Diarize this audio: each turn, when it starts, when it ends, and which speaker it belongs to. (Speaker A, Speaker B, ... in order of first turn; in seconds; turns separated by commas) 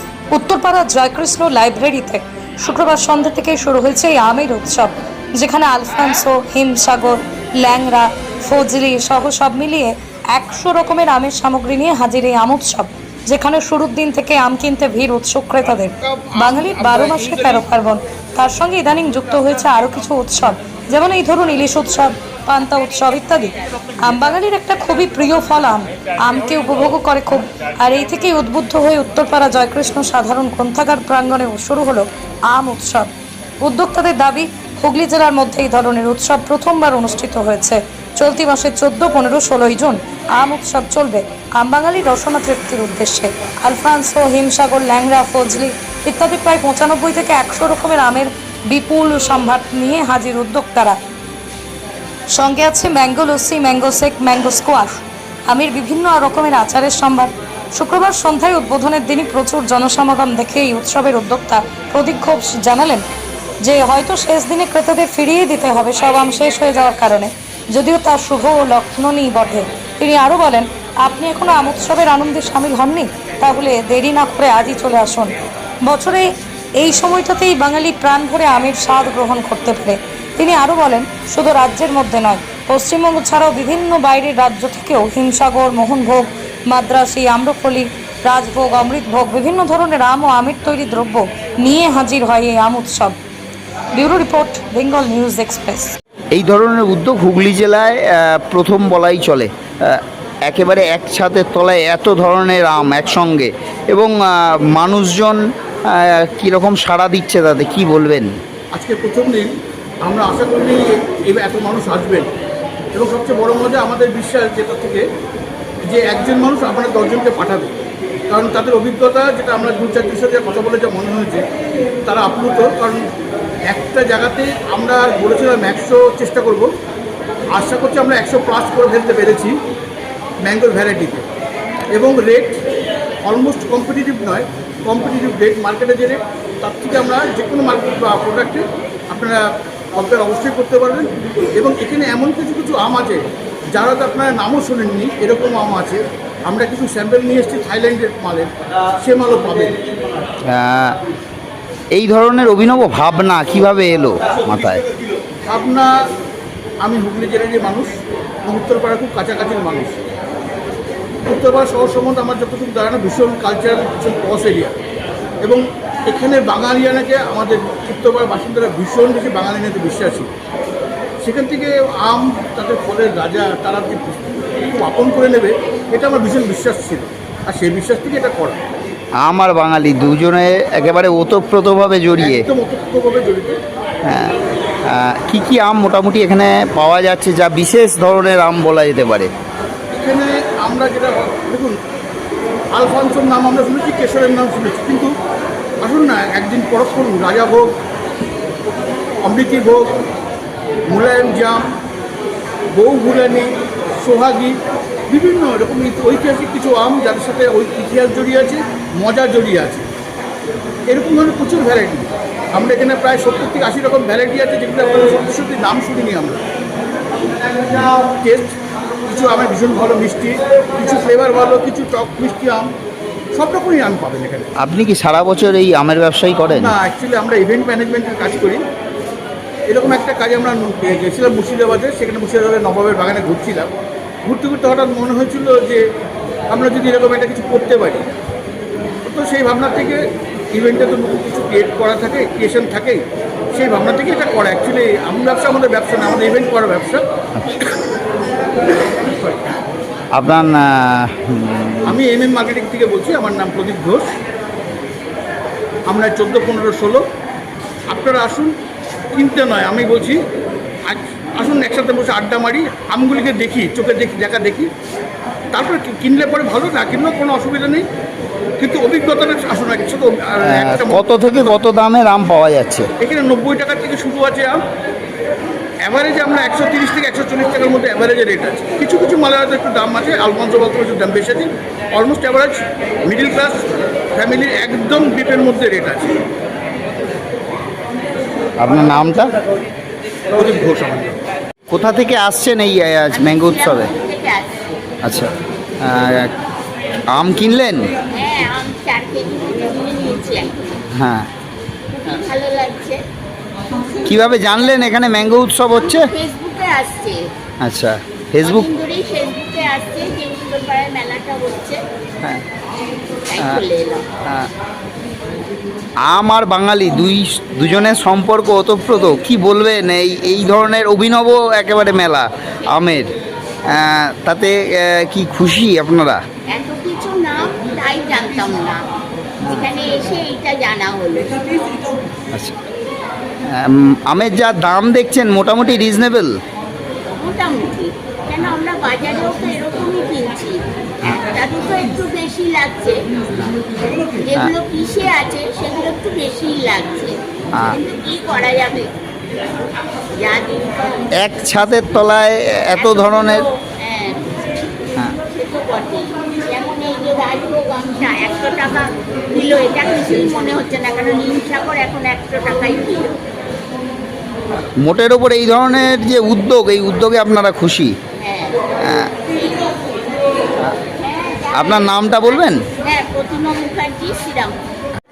Speaker A: 0.3-33.1, Speaker A: 33.6-51.0, Speaker A: 52.3-63.0, Speaker A: 63.6-93.2, Speaker A: 93.9-96.0, Speaker B: 96.3-108.3, Speaker C: 108.7-109.5, Speaker C: 110.0-112.3, Speaker C: 112.9-115.0, Speaker C: 115.9-117.8, Speaker C: 118.3-121.5, Speaker C: 122.1-123.0, Speaker C: 123.7-126.7, Speaker C: 127.5-129.6, Speaker C: 130.4-131.2, Speaker C: 131.9-132.6, Speaker C: 133.2-143.2, Speaker C: 143.7-149.8, Speaker B: 150.5-151.0, Speaker B: 151.9-154.8, Speaker C: 155.5-155.9, Speaker C: 156.8-157.9, Speaker C: 158.4-160.0, Speaker C: 161.3-164.8, Speaker C: 165.4-170.3, Speaker C: 171.2-178.6, Speaker B: 179.2-182.5, Speaker C: 182.2-183.6, Speaker B: 184.1-184.3, Speaker B: 184.9-189.3, Speaker C: 189.9-191.8, Speaker C: 192.7-195.1, Speaker C: 195.8-197.8, Speaker C: 199.2-200.0, Speaker C: 200.9-201.7, Speaker C: 202.7-203.5, Speaker C: 204.0-204.6, Speaker C: 205.1-209.9, Speaker C: 210.9-216.4, Speaker C: 218.0-218.6, Speaker C: 219.1-222.7, Speaker C: 223.3-224.5, Speaker B: 224.6-226.7, Speaker C: 226.5-228.6, Speaker C: 229.7-233.7, Speaker C: 234.2-235.8, Speaker C: 236.5-238.1, Speaker C: 239.0-240.0, Speaker C: 240.5-243.0, Speaker C: 243.5-247.0, Speaker B: 250.2-252.0, Speaker C: 251.9-254.1, Speaker C: 255.9-257.1, Speaker C: 257.9-258.5, Speaker C: 259.1-260.2, Speaker C: 260.9-264.7, Speaker C: 265.5-267.9, Speaker C: 268.6-271.5, Speaker B: 270.5-272.9, Speaker C: 273.0-274.6, Speaker C: 275.8-283.6, Speaker C: 284.1-286.2, Speaker B: 288.6-289.3, Speaker C: 290.3-291.2, Speaker B: 291.7-293.9, Speaker D: 293.1-294.8, Speaker B: 295.0-296.3, Speaker B: 297.1-297.9, Speaker D: 298.1-300.8, Speaker B: 300.9-301.3, Speaker D: 301.9-303.0, Speaker B: 304.1-306.1, Speaker D: 305.8-307.2, Speaker B: 307.6-308.7, Speaker D: 308.4-311.8, Speaker D: 313.3-314.0, Speaker B: 313.4-313.6, Speaker B: 316.1-323.1, Speaker B: 323.7-326.2, Speaker D: 326.5-328.8, Speaker D: 329.5-331.6, Speaker B: 333.5-336.3, Speaker D: 337.2-343.0, Speaker D: 344.2-347.1, Speaker D: 347.7-348.9, Speaker D: 350.2-351.1, Speaker B: 351.2-353.4, Speaker D: 351.7-352.1, Speaker D: 352.8-354.3, Speaker D: 355.1-363.2, Speaker B: 364.8-368.0, Speaker D: 368.2-368.6, Speaker B: 368.8-369.1, Speaker D: 369.3-369.8, Speaker D: 371.0-374.6, Speaker B: 371.5-372.6